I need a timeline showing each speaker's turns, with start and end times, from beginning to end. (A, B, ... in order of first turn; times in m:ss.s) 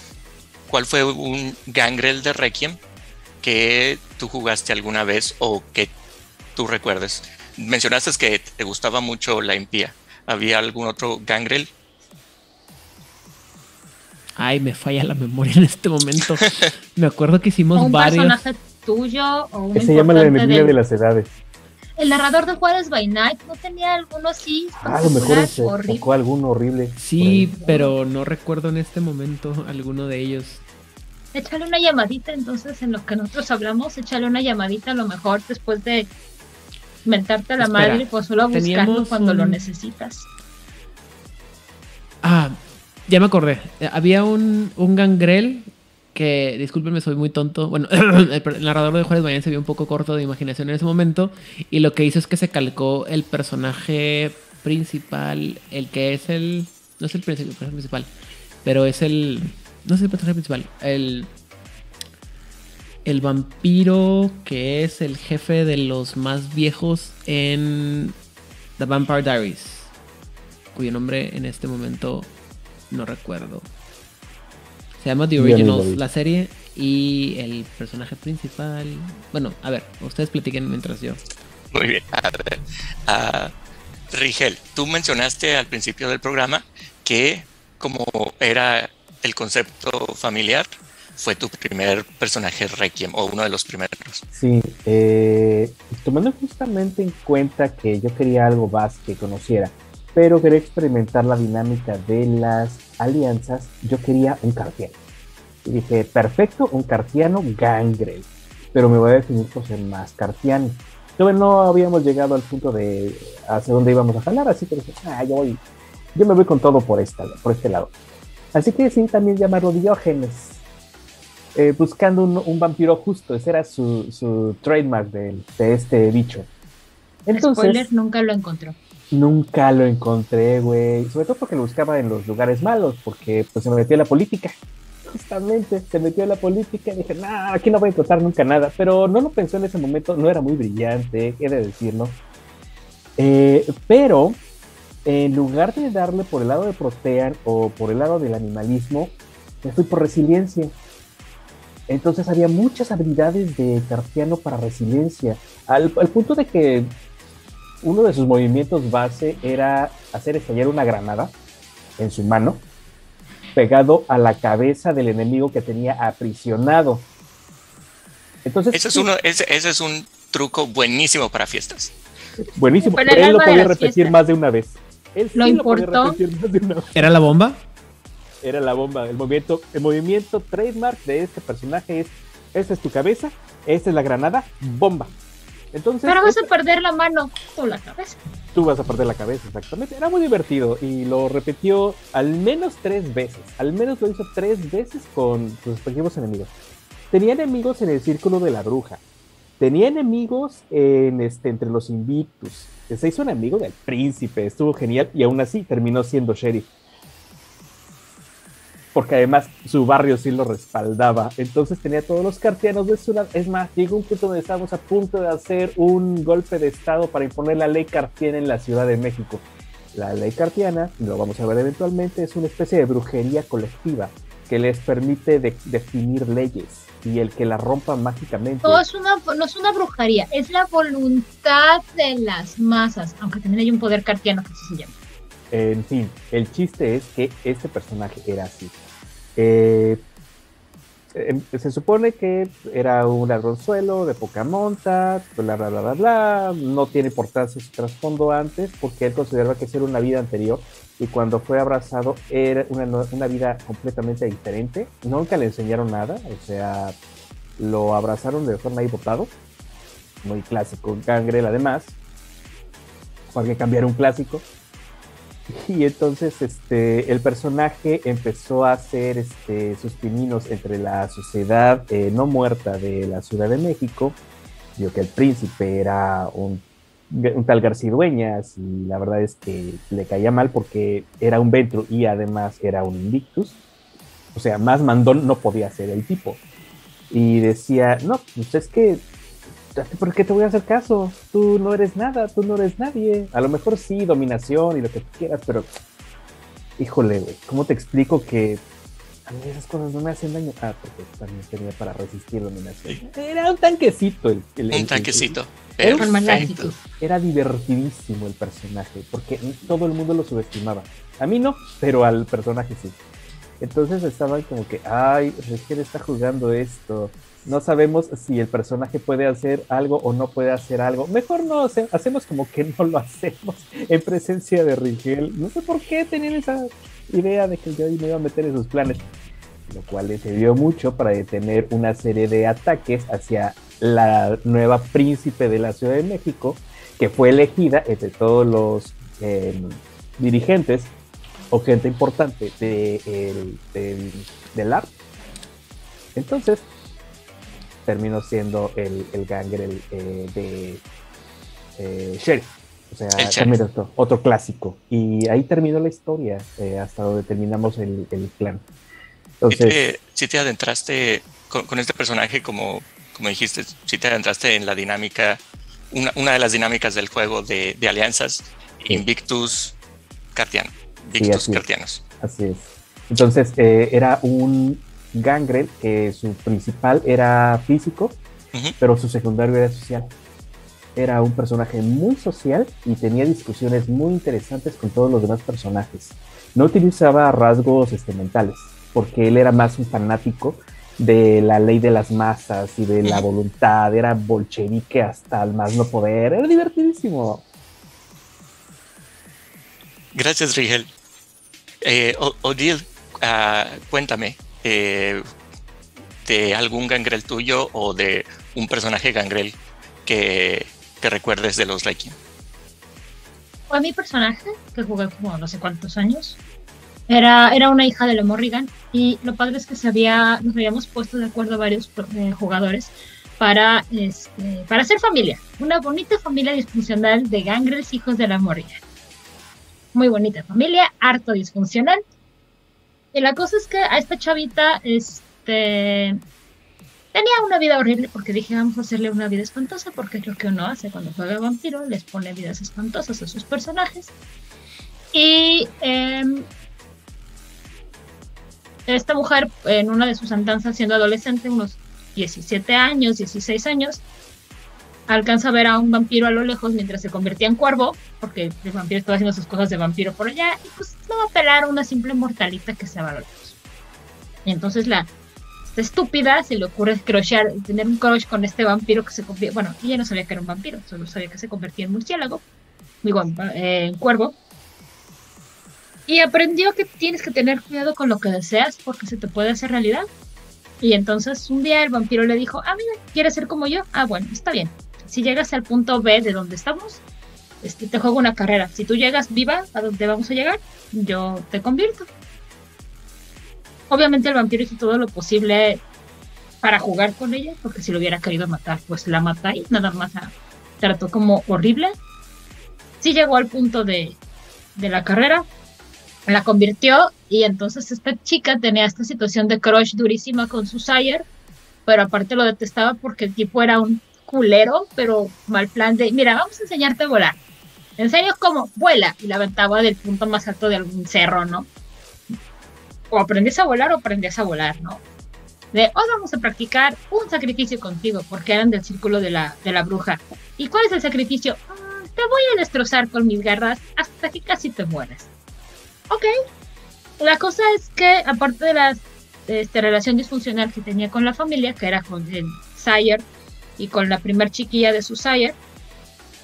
0:00.7-0:02.8 A
0:03.4-0:05.9 A
0:06.6-0:11.7 A
0:14.4-0:18.4 B
0:17.8-0:20.7 C
0:19.7-0:21.4 D
0:22.0-0:26.0 C
0:24.8-0:27.6 D
0:27.0-0:30.6 B
0:27.6-0:27.9 C
0:31.3-0:36.1 C
0:37.0-0:40.3 C
0:37.6-0:39.6 B
0:42.2-0:58.1 B
0:58.6-1:01.3 B
1:03.0-1:08.1 B
1:08.8-1:09.9 B
1:10.8-1:12.3 B
1:12.9-1:13.7 B
1:15.0-1:21.2 B
1:15.4-1:16.0 D
1:21.7-1:23.5 A
1:24.1-1:34.2 A
1:34.3-1:45.0 D
1:45.6-1:55.6 D
1:56.1-1:57.9 D
1:58.5-2:00.6 D
2:01.6-2:06.5 D
2:07.3-2:07.9 D
2:07.4-2:08.8 C
2:09.1-2:14.5 D
2:15.1-2:22.2 D
2:23.2-2:24.4 D
2:25.0-2:30.8 D
2:31.9-2:36.9 D
2:37.8-2:41.3 D
2:42.0-2:42.6 D
2:43.6-2:47.1 D
2:48.4-2:49.1 D
2:48.7-2:51.9 A
2:52.6-2:57.1 D
2:52.9-2:54.1 C
2:55.4-2:56.2 C
2:56.9-2:57.7 B
2:58.4-3:05.1 D
3:05.7-3:06.5 D
3:06.0-3:08.2 C
3:08.5-3:16.5 D
3:17.1-3:19.0 D
3:19.6-3:26.7 D
3:28.9-3:48.8 D
3:48.6-3:54.9 C
3:55.5-3:58.7 D
3:59.4-4:00.0 D
4:01.1-4:17.0 D
4:17.6-4:19.3 D
4:20.2-4:22.0 D
4:23.3-4:24.4 D
4:25.5-4:34.2 D
4:34.8-4:43.6 D
4:44.3-4:46.4 D
4:47.1-4:49.0 D
4:49.8-4:55.7 D
4:56.8-4:58.6 D
4:59.3-5:13.0 D
5:04.7-5:06.7 A
5:05.9-5:06.8 C
5:13.6-5:29.1 D
5:29.7-5:40.9 D
5:41.5-5:44.9 D
5:46.1-5:46.7 D
5:47.9-5:50.8 D
5:51.8-5:58.6 D
5:53.2-5:53.5 A
5:59.4-5:59.8 D
5:59.5-6:09.8 A
6:10.4-6:12.0 A
6:11.2-6:11.6 D
6:12.2-6:18.2 D
6:18.8-6:20.1 D
6:21.0-6:37.4 D
6:40.1-6:40.9 A
6:41.8-6:45.2 A
6:46.2-6:52.2 A
6:53.7-6:56.4 C
6:57.1-7:08.8 C
7:09.9-7:12.0 C
7:13.1-7:16.2 C
7:17.1-7:24.1 C
7:25.1-7:26.5 C
7:28.9-7:34.0 C
7:35.1-7:43.6 C
7:44.4-7:45.1 C
7:45.7-7:52.4 C
7:53.0-7:54.4 C
7:56.1-8:00.0 C
8:00.8-8:07.0 C
8:07.6-8:12.1 C
8:13.9-8:15.8 C
8:16.6-8:21.9 C
8:23.0-8:24.2 C
8:24.8-8:25.4 C
8:26.3-8:31.2 C
8:31.9-8:37.4 C
8:38.0-8:41.7 C
8:43.1-8:45.0 C
8:45.7-8:55.3 C
8:57.2-9:03.2 C
9:03.8-9:05.6 C